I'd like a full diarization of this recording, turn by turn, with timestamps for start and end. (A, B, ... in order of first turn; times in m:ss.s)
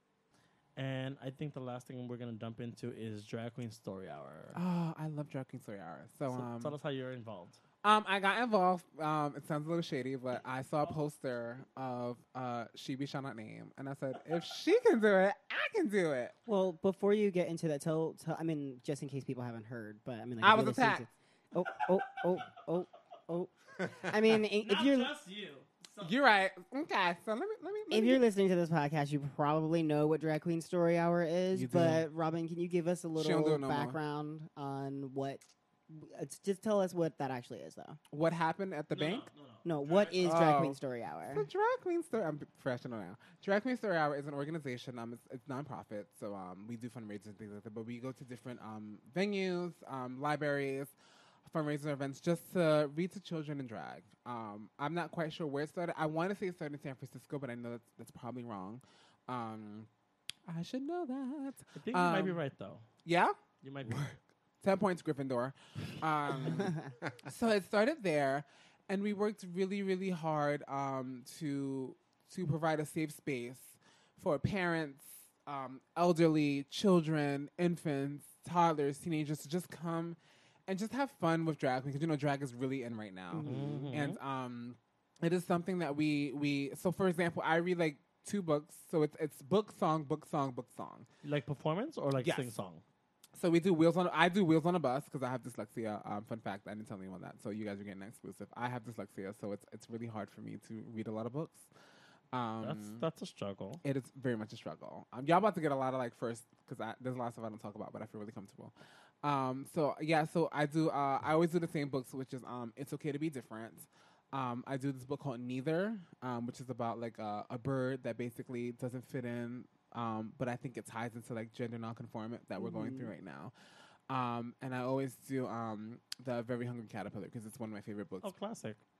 0:00.8-0:04.6 A
0:04.5-0:06.8 B
0:06.3-0:07.6 A
0:07.8-0:16.3 B
0:16.4-0:25.1 C
0:20.4-0:21.0 B
0:24.5-0:26.1 A
0:26.0-0:28.2 B
0:27.9-0:38.0 C
0:31.5-0:32.1 B
0:33.2-0:34.0 B
0:38.1-0:39.3 B
0:38.9-0:40.6 A
0:39.6-0:41.4 C
0:40.2-0:40.8 B
0:41.3-0:50.9 B
0:51.4-0:59.9 B
1:00.5-1:02.4 B
1:01.8-1:02.8 A
1:03.0-1:31.1 B
1:03.6-1:04.1 A
1:06.6-1:06.9 C
1:23.3-1:24.0 C
1:23.4-1:24.2 A
1:31.2-1:32.8 A
1:32.2-1:32.5 B
1:33.4-1:41.7 B
1:42.3-1:43.0 B
1:42.6-1:43.8 A
1:43.8-2:03.5 B
2:02.6-2:03.1 C
2:04.1-2:08.3 B
2:08.2-2:08.8 A